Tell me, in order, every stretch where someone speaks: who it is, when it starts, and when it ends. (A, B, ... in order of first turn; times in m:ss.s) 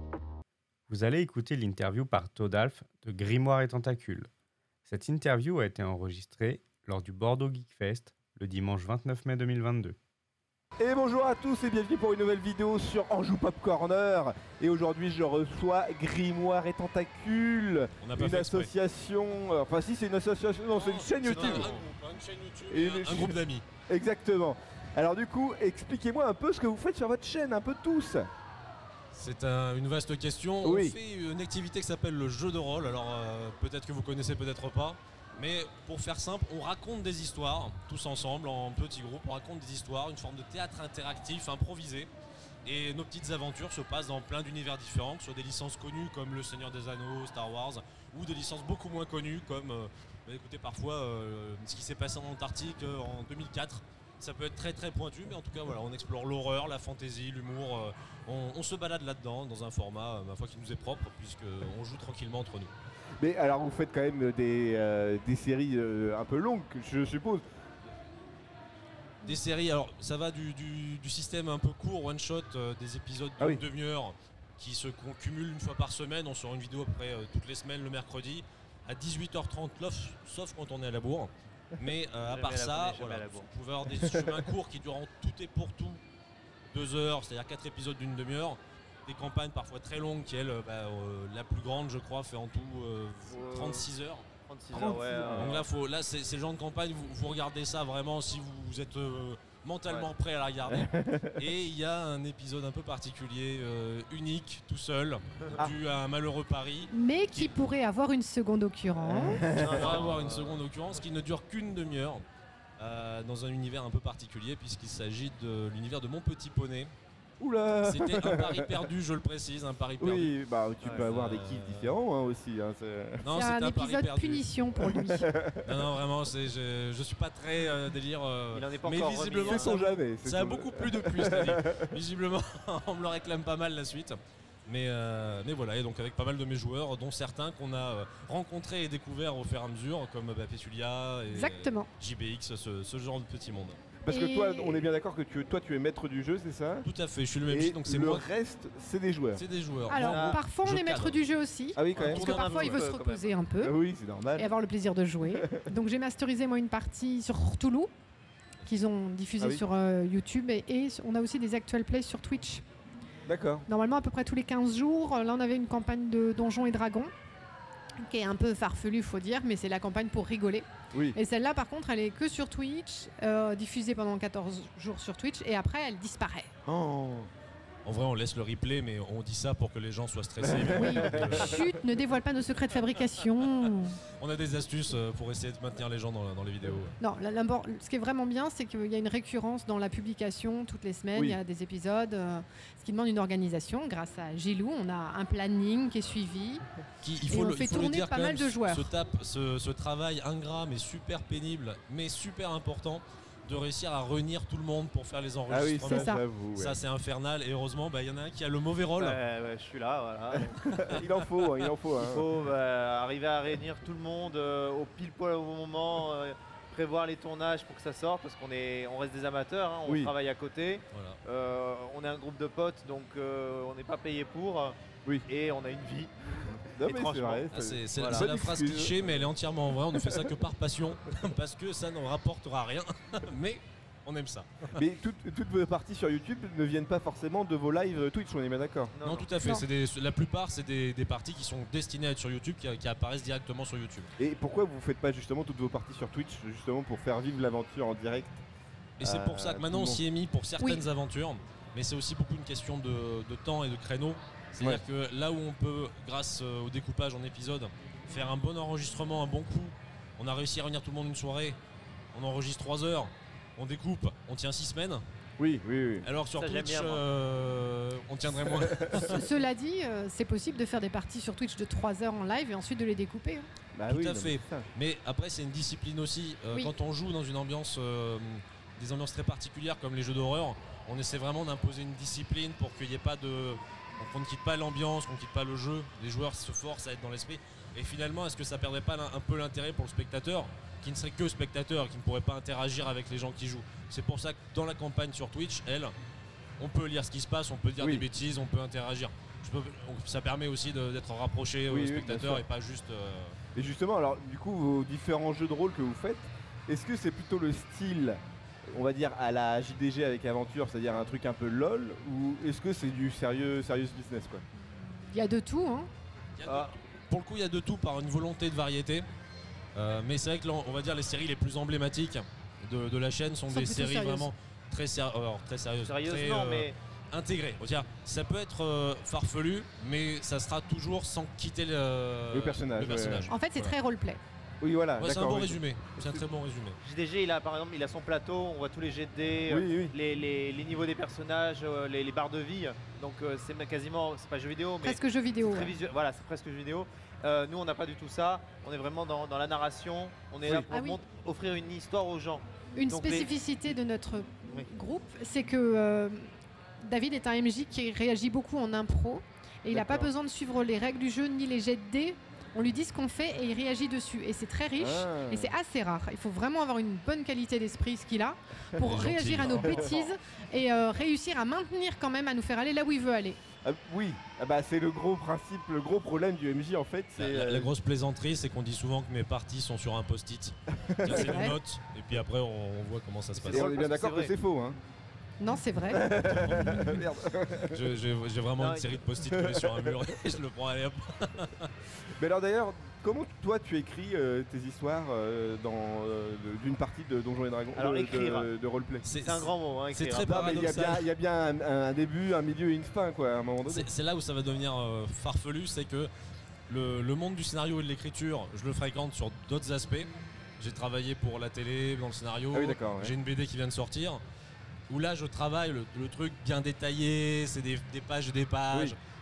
0:00.9-0:04.3 A
0:04.8-0:10.0 A
0:10.8-0:21.8 B
0:18.0-0:18.7 C
0:20.8-0:23.6 C
0:21.3-0:21.8 D
0:22.7-0:28.3 B
0:29.1-0:42.1 C
0:30.6-0:31.0 B
0:42.6-1:02.7 C
1:03.2-1:07.4 B
1:09.2-1:26.0 C
1:22.2-1:23.5 D
1:26.7-1:34.3 C
1:33.3-1:33.8 D
1:34.5-1:35.6 D
1:34.7-1:35.6 B
1:35.3-1:47.6 C
1:40.7-1:41.4 B
1:46.9-1:49.4 E
1:49.0-1:50.1 B
1:49.4-1:50.6 D
1:49.6-1:52.2 C
1:52.8-1:56.9 C
1:57.4-1:58.8 B
1:57.8-2:00.4 C
2:00.0-2:03.3 B
2:00.8-2:01.1 D
2:00.9-2:02.0 C
2:03.2-2:04.5 C
2:03.3-2:05.3 E
2:04.8-2:05.8 B
2:05.6-2:23.8 C
2:08.5-2:09.7 D
2:09.5-2:11.9 B
2:21.3-2:21.9 E
2:24.0-2:26.9 B
2:24.1-2:24.9 E
2:26.8-2:28.3 C
2:27.5-2:29.4 B
2:29.3-2:31.2 C
2:29.9-2:33.7 E
2:30.0-2:30.4 D
2:31.7-2:32.3 B
2:31.9-2:32.8 C
2:32.0-2:33.4 D
2:33.6-2:34.5 B
2:34.4-2:37.9 E
2:35.3-2:35.6 B
2:38.6-2:42.6 E
2:39.4-2:39.6 B
2:43.2-2:43.7 B
2:43.7-2:47.1 E
2:48.0-2:56.5 E
2:50.9-2:51.2 B
2:56.6-2:57.3 B
2:57.8-3:01.7 C
3:00.4-3:01.6 B
3:00.8-3:04.0 E
3:04.2-3:07.0 C
3:07.0-3:16.6 E
3:17.0-3:29.2 C
3:17.3-3:18.9 E
3:25.5-3:26.8 B
3:25.9-3:26.2 E
3:29.0-3:30.7 D
3:30.3-3:32.2 B
3:32.0-3:48.3 D
3:39.8-3:40.1 B
3:40.9-3:41.2 C
3:46.7-3:49.2 B
3:47.5-3:54.7 C
3:49.9-3:50.2 B
3:54.7-3:58.9 B
3:58.9-3:59.3 D
3:59.0-4:04.1 C
4:04.2-4:08.4 B
4:09.0-4:21.6 C
4:09.0-4:10.0 B
4:22.1-4:25.0 C
4:25.4-4:26.1 B
4:26.0-4:29.2 C
4:26.4-4:27.0 D
4:28.6-4:29.0 B
4:28.9-4:33.5 E
4:33.7-4:34.6 B
4:33.9-4:55.9 C
4:56.6-5:03.4 C
4:57.8-4:58.1 B
5:01.7-5:02.4 B
5:03.5-5:14.4 B
5:14.7-5:15.9 E
5:16.4-5:19.0 C
5:16.4-5:16.7 D
5:19.7-5:33.7 C
5:23.5-5:24.3 E
5:25.8-5:26.8 D
5:32.3-5:33.3 B
5:33.3-5:34.2 E
5:34.6-5:36.2 B
5:35.0-5:36.8 C
5:36.8-5:53.3 D
5:39.5-5:39.9 B
5:44.8-5:45.7 E
5:50.4-5:50.7 B
5:50.7-5:51.0 E
5:52.8-5:56.3 E
5:56.8-6:13.4 E
5:59.7-6:00.1 B
6:04.8-6:05.6 B
6:08.8-6:10.0 C
6:09.4-6:10.0 B
6:13.6-6:17.7 B
6:17.2-6:23.7 C
6:20.8-6:21.4 B
6:21.1-6:21.6 E
6:23.4-6:24.8 B
6:23.5-6:24.3 D
6:25.4-6:26.0 E
6:25.9-6:27.8 B
6:26.2-6:27.0 C
6:27.7-6:31.7 C
6:28.6-6:28.9 D
6:29.2-6:30.0 B
6:32.2-6:39.1 B
6:37.7-6:38.5 D
6:39.0-6:41.1 C
6:39.2-6:40.7 D
6:40.2-6:43.9 B
6:43.7-6:46.1 C
6:46.7-6:54.2 C
6:52.5-6:53.2 B
6:54.9-6:59.0 C